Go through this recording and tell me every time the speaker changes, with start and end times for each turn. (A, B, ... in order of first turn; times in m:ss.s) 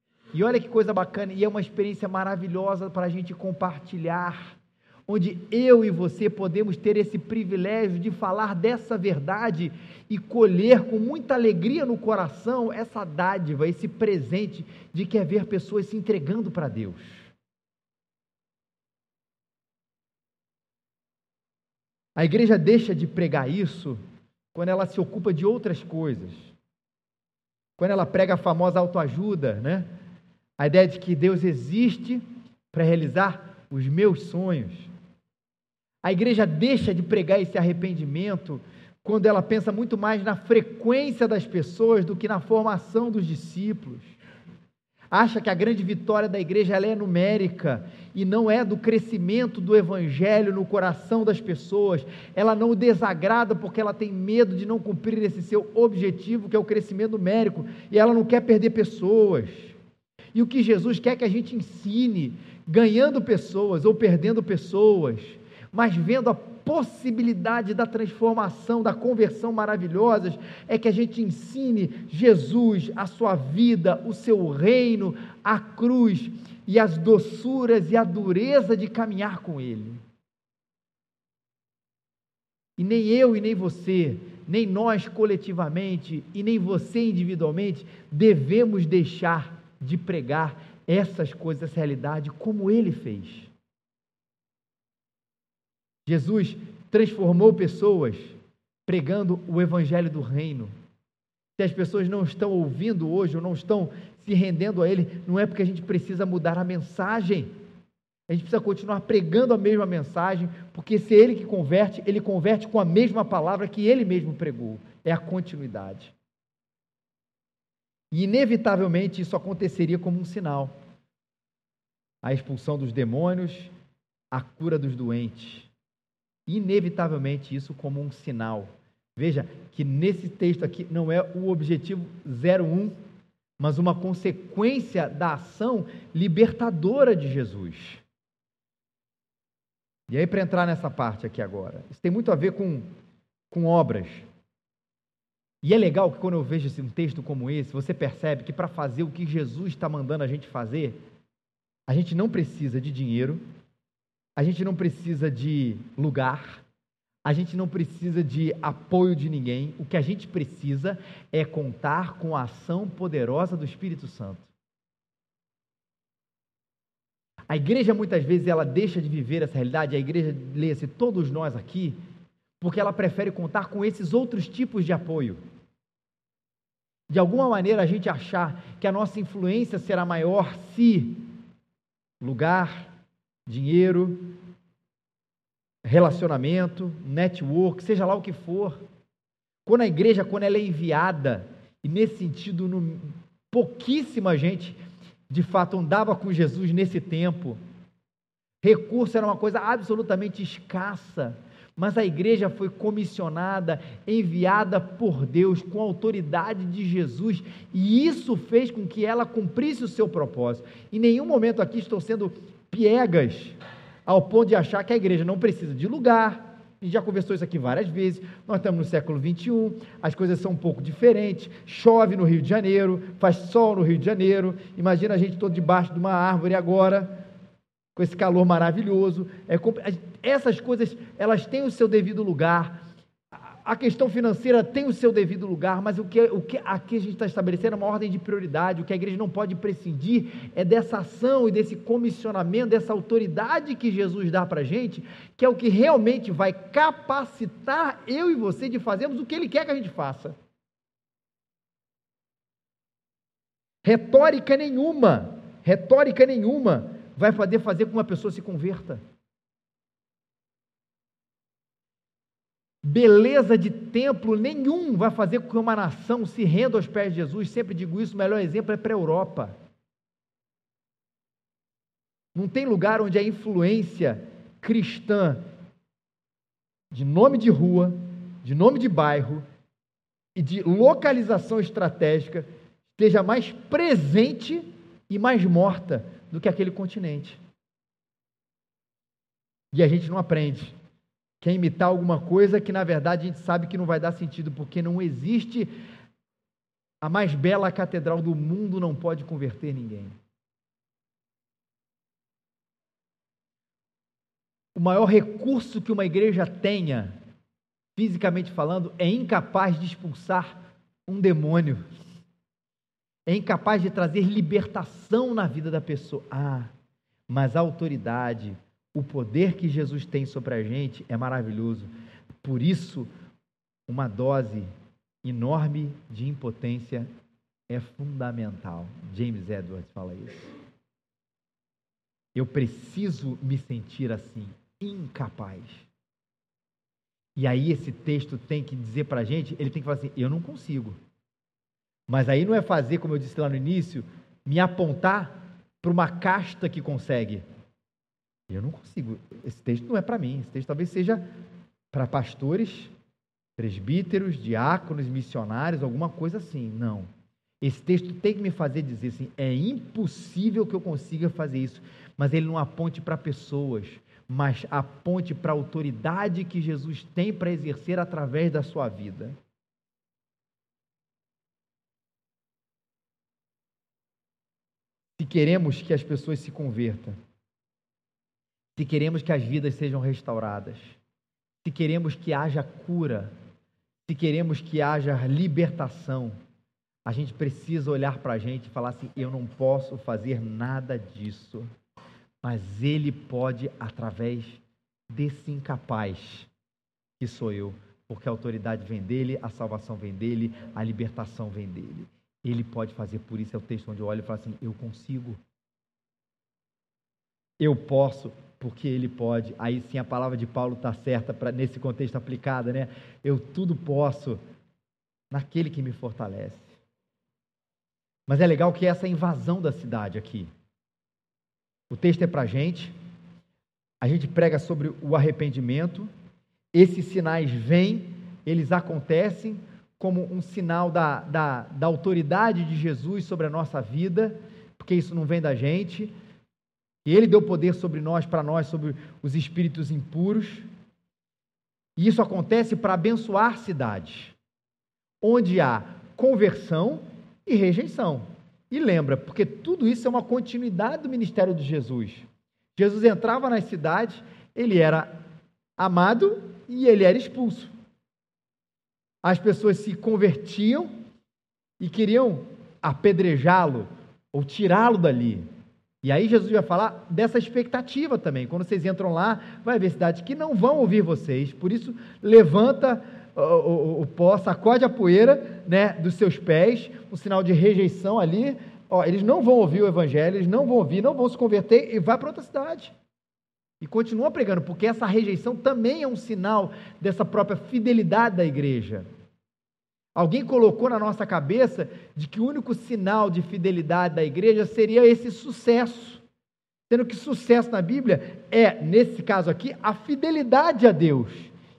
0:00.3-0:17.3 A
0:22.2-0:24.0 A
0:24.5-0:26.5 A
0:27.8-0:29.9 A
0:30.6-0:34.9 A
0:36.0-0:44.2 A
0:45.1-0:59.8 A
1:00.3-1:20.0 A
1:22.8-1:33.5 A
1:36.1-1:40.7 A
1:41.6-1:47.5 A
1:48.3-1:56.1 A
1:58.1-2:00.7 A
2:02.2-2:03.7 A
2:04.3-2:05.7 A
2:06.5-2:13.0 A
2:13.6-2:18.0 A
2:20.1-2:22.9 A
2:23.5-2:24.3 A
2:25.6-2:31.0 A
2:31.9-2:33.4 A
2:34.4-2:36.6 A
2:37.2-2:44.5 A
2:47.5-2:52.0 A
2:52.6-2:55.4 A
2:57.1-3:01.2 A
3:02.2-3:02.9 A
3:03.5-3:04.4 A
3:05.8-3:08.8 A
3:09.7-3:14.8 A
3:15.3-3:17.6 A
3:18.6-3:47.2 A
3:48.0-3:52.8 A
3:53.5-4:10.4 A
4:13.8-4:19.0 A
4:22.8-4:29.6 A
4:32.4-4:35.4 A
4:36.9-4:39.4 A
4:40.4-4:47.4 A
4:49.7-4:50.8 A
4:51.4-4:55.7 A
4:57.0-5:00.2 A
5:04.8-5:07.1 A
5:08.0-5:11.8 A
5:13.3-5:16.7 A
5:17.3-5:21.9 A
5:22.4-5:23.1 A
5:23.9-5:24.7 A
5:25.2-5:27.1 A
5:27.7-5:30.5 A
5:32.4-5:35.9 A
5:37.4-5:41.0 A
5:42.1-5:47.4 A
5:48.5-5:51.2 A
5:51.9-5:52.9 A
5:53.6-5:57.1 A
5:57.6-6:09.4 A
6:15.2-6:17.2 A
6:18.8-6:21.0 A
6:21.6-6:23.3 A
6:24.1-6:26.4 A
6:27.0-6:31.7 A
6:32.4-6:36.5 A
6:37.2-6:45.4 A
6:47.6-6:54.4 A
6:55.3-6:56.7 A
6:58.3-7:00.5 A
7:01.9-7:02.9 A
7:04.0-7:06.1 A
7:06.7-7:16.1 A
7:17.0-7:20.7 A
7:22.0-7:24.4 A
7:25.2-7:35.1 A
7:35.8-7:37.7 A
7:39.2-7:40.9 A
7:41.8-7:45.5 A
7:46.0-8:02.9 A
8:03.8-8:09.1 A
8:10.2-8:16.2 A
8:16.9-8:21.5 A